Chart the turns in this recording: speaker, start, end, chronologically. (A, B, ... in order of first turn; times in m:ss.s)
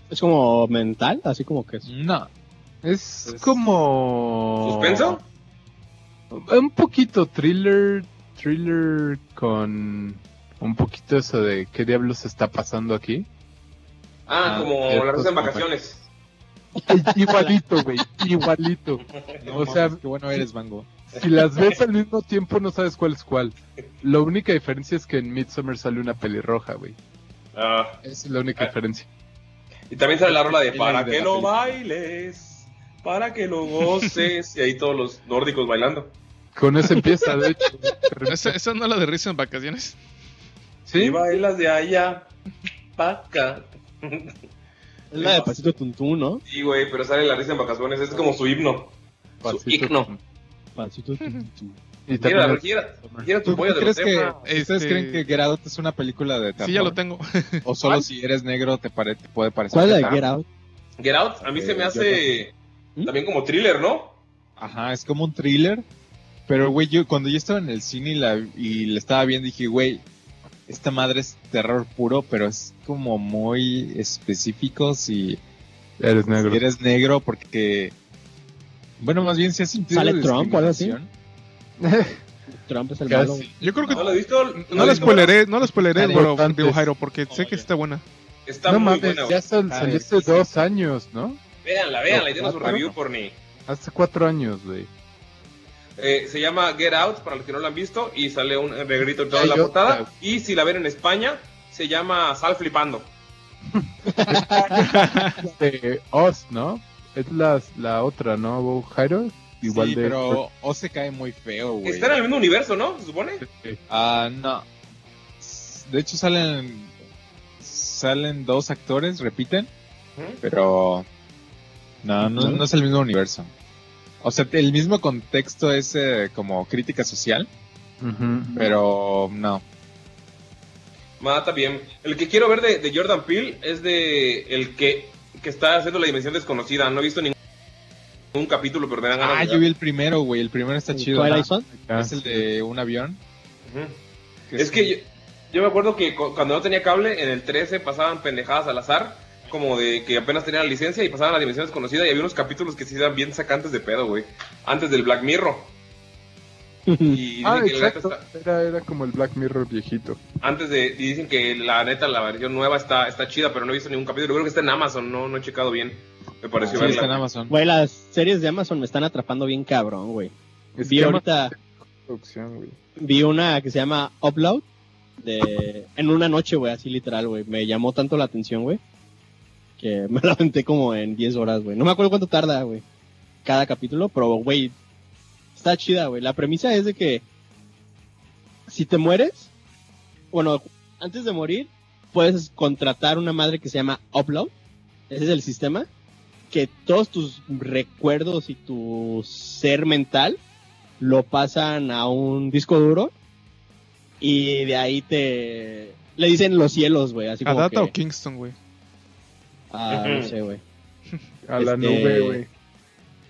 0:00.1-0:01.8 A
0:01.8-0:02.3 B
0:02.8-0:05.2 C
0:03.2-0:03.6 B
0:04.6-0:05.2 D
0:06.3-0:13.2 C
0:14.3-0:14.7 B
0:14.3-0:16.0 D
0:14.7-0:15.7 C
0:16.9-0:19.0 C
0:17.0-0:17.6 A
0:19.4-0:20.9 B
0:19.6-0:20.4 C
0:21.1-0:27.0 C
0:21.2-0:21.8 D
0:27.5-0:28.0 D
0:28.0-0:29.1 C
0:29.9-0:36.1 D
0:30.3-0:31.7 B
0:36.6-0:38.5 C
0:38.3-0:40.0 E
0:40.9-0:41.2 C
0:41.0-0:42.3 D
0:43.0-0:44.3 D
0:45.1-0:46.4 A
0:46.5-0:48.9 D
0:49.4-0:50.2 C
0:49.4-0:50.1 D
0:50.8-0:51.8 A
0:52.1-0:53.3 C
0:52.2-0:54.4 D
0:53.4-0:57.0 B
0:54.4-0:55.2 E
0:56.6-0:58.0 E
0:57.6-1:00.2 B
0:59.7-1:00.4 A
1:01.0-1:02.5 D
1:01.4-1:02.3 B
1:03.0-1:04.2 D
1:04.6-1:05.8 B
1:06.5-1:10.0 B
1:10.7-1:15.4 B
1:16.0-1:16.6 C
1:16.4-1:17.9 B
1:19.0-1:21.1 B
1:19.9-1:21.0 A
1:21.8-1:22.2 C
1:22.5-1:23.5 A
1:23.1-1:24.0 C
1:23.6-1:28.0 E
1:23.9-1:25.3 D
1:24.7-1:25.3 B
1:25.8-1:26.9 C
1:28.5-1:29.4 D
1:28.6-1:31.4 C
1:29.6-1:30.4 B
1:31.6-1:33.4 D
1:32.1-1:32.9 C
1:33.7-1:34.9 C
1:36.0-1:43.1 D
1:39.3-1:40.1 C
1:43.7-1:50.4 C
1:44.1-1:44.8 A
1:44.8-1:45.3 E
1:49.6-1:52.2 B
1:51.8-1:53.4 D
1:53.4-1:53.8 C
1:53.9-1:54.7 B
1:55.4-1:56.9 B
1:57.6-1:59.7 B
2:00.4-2:01.1 B
2:02.0-2:03.5 B
2:02.2-2:02.6 C
2:04.2-2:07.5 B
2:08.0-2:08.7 C
2:08.5-2:09.6 B
2:11.2-2:17.4 D
2:18.3-2:19.6 D
2:19.1-2:23.2 B
2:20.9-2:21.7 A
2:21.4-2:22.4 C
2:23.6-2:24.0 D
2:24.5-2:24.9 B
2:24.6-2:35.7 D
2:36.9-2:37.2 A
2:37.1-2:38.2 D
2:37.4-2:40.2 C
2:40.4-2:47.2 D
2:46.6-2:47.5 B
2:46.8-2:51.5 A
2:50.8-2:52.8 C
2:53.0-2:54.6 A
2:55.2-2:58.8 A
2:59.8-3:02.8 A
3:03.4-3:04.7 A
3:05.5-3:07.2 A
3:08.7-3:09.5 A
3:10.3-3:14.5 A
3:15.1-3:15.9 A
3:16.5-3:20.4 A
3:21.0-3:23.1 A
3:24.2-3:27.9 A
3:27.4-3:28.6 E
3:29.7-3:30.6 A
3:29.9-3:30.3 D
3:31.4-3:32.5 C
3:31.6-3:32.4 A